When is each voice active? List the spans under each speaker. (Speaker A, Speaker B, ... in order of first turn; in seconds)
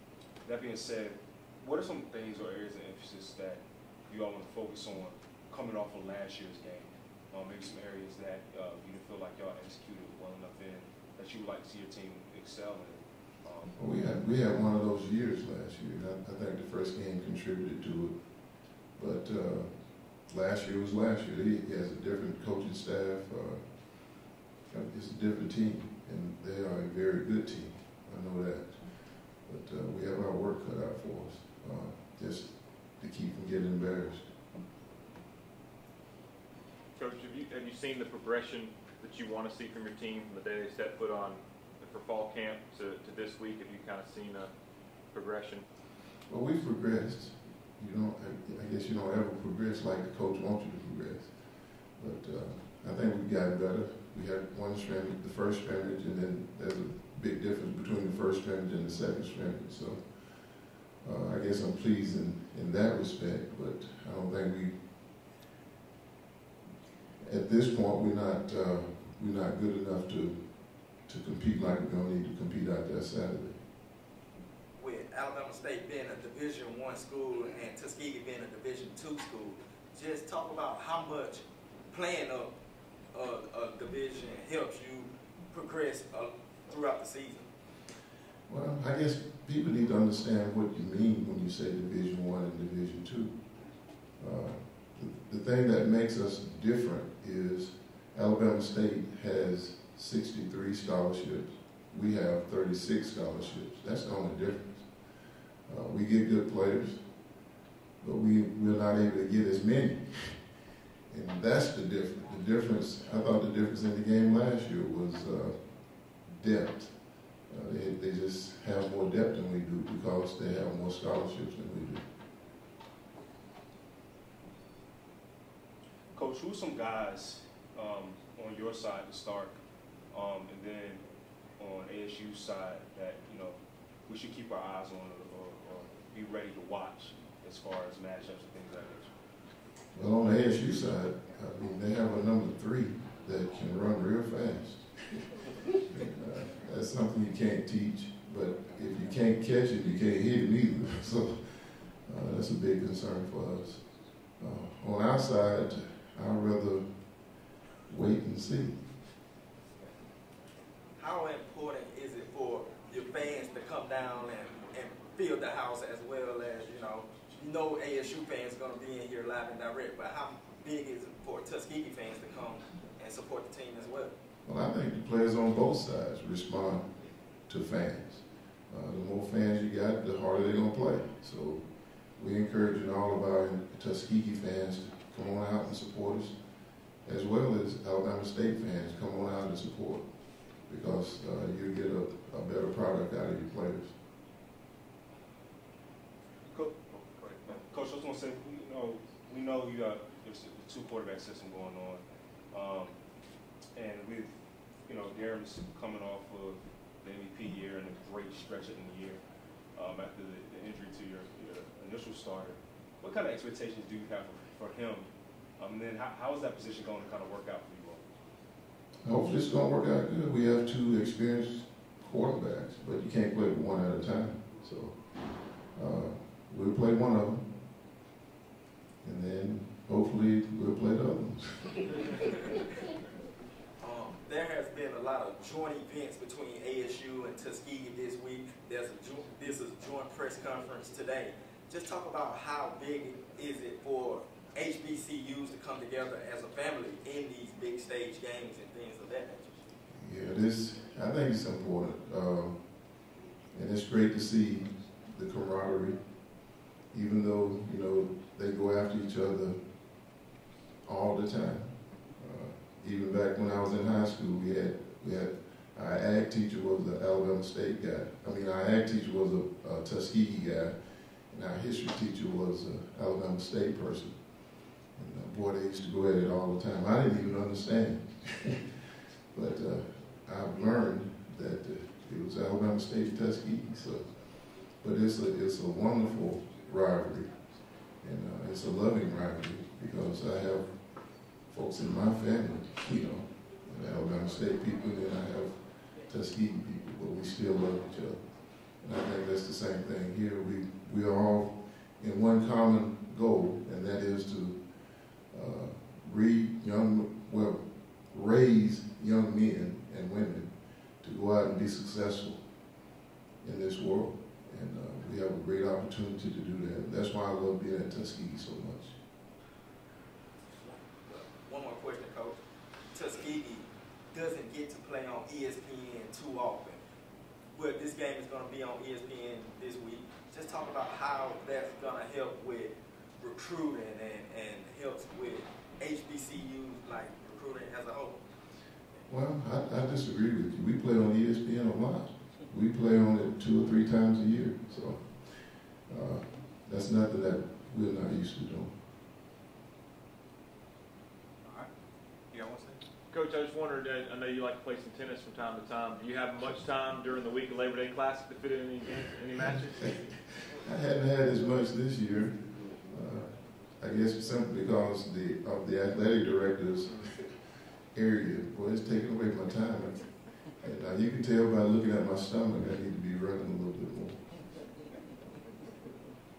Speaker A: 0.4-13.8, 126.1-129.6, 130.1-131.0, 131.6-139.1, 197.4-203.0, 203.7-209.2, 209.7-218.0
Speaker B: 13.7-34.4, 46.2-64.9, 67.2-73.6, 88.5-122.0, 139.9-158.9, 174.4-194.0, 219.0-227.9, 229.0-232.1, 249.9-278.8, 279.3-312.8, 313.4-319.0, 339.1-348.8, 359.8-374.7
Speaker C: 36.9-44.5, 45.1-45.6, 353.1-360.1, 366.8-367.1
Speaker D: 74.8-82.5, 83.1-87.5, 161.0-174.1, 233.8-249.6, 320.6-322.4, 322.9-326.8, 327.5-338.2
Speaker E: 196.5-197.6, 351.4-351.7, 352.3-352.8